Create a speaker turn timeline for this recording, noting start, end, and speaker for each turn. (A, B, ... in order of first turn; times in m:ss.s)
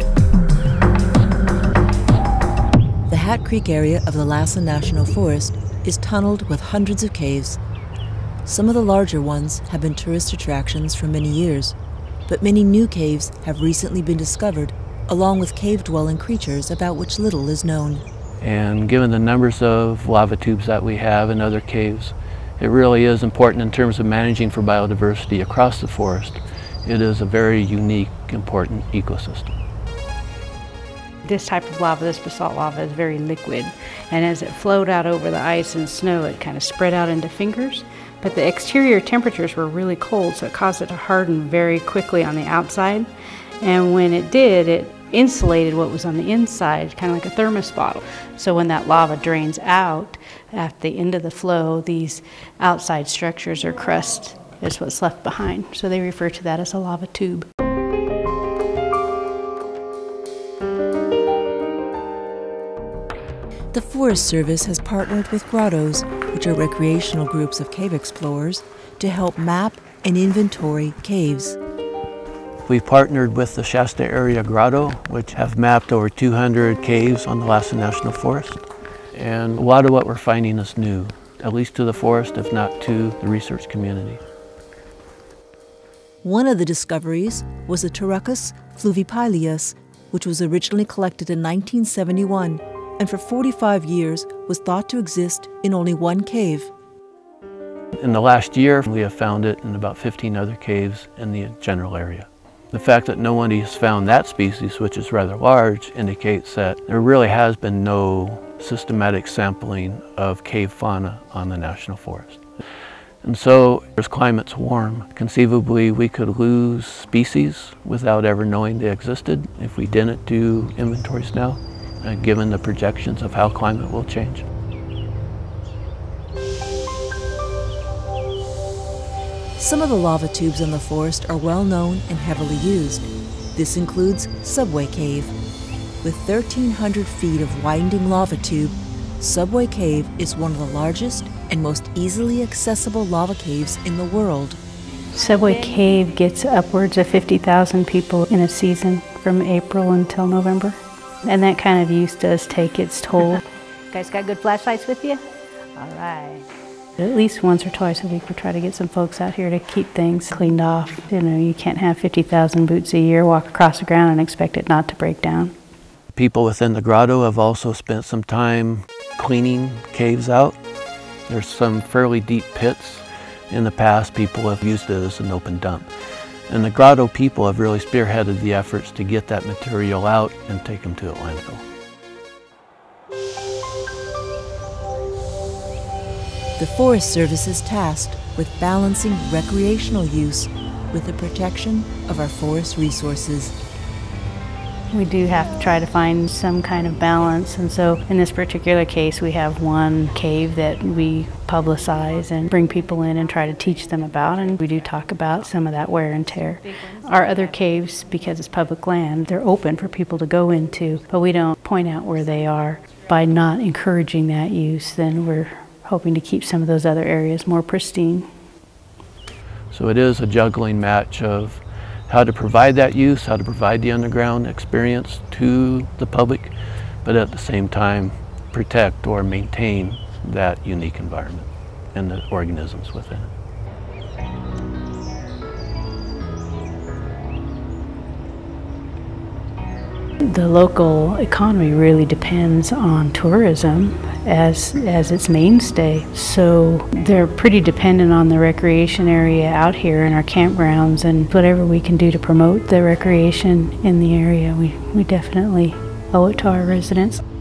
0:03.1-0:07.6 A
0:08.4-0:11.8 A
0:12.3-0:18.0 A
0:18.4-0:29.6 B
0:31.2-0:43.1 C
0:43.6-0:57.5 C
1:03.7-1:11.6 A
1:12.7-1:18.6 B
1:19.1-1:24.2 B
1:26.2-1:36.7 A
1:38.0-1:52.4 B
1:53.2-2:04.4 B
2:09.6-2:15.3 A
2:16.0-2:24.6 A
2:25.1-2:35.2 C
2:35.8-2:36.4 C
2:37.0-2:45.5 C
2:46.1-2:50.6 B
2:51.3-2:55.9 B
2:56.5-3:01.6 B
3:06.6-3:13.5 A
3:14.9-3:38.3 C
3:39.7-3:46.5 B
3:47.0-3:53.3 B
4:00.2-4:17.2 C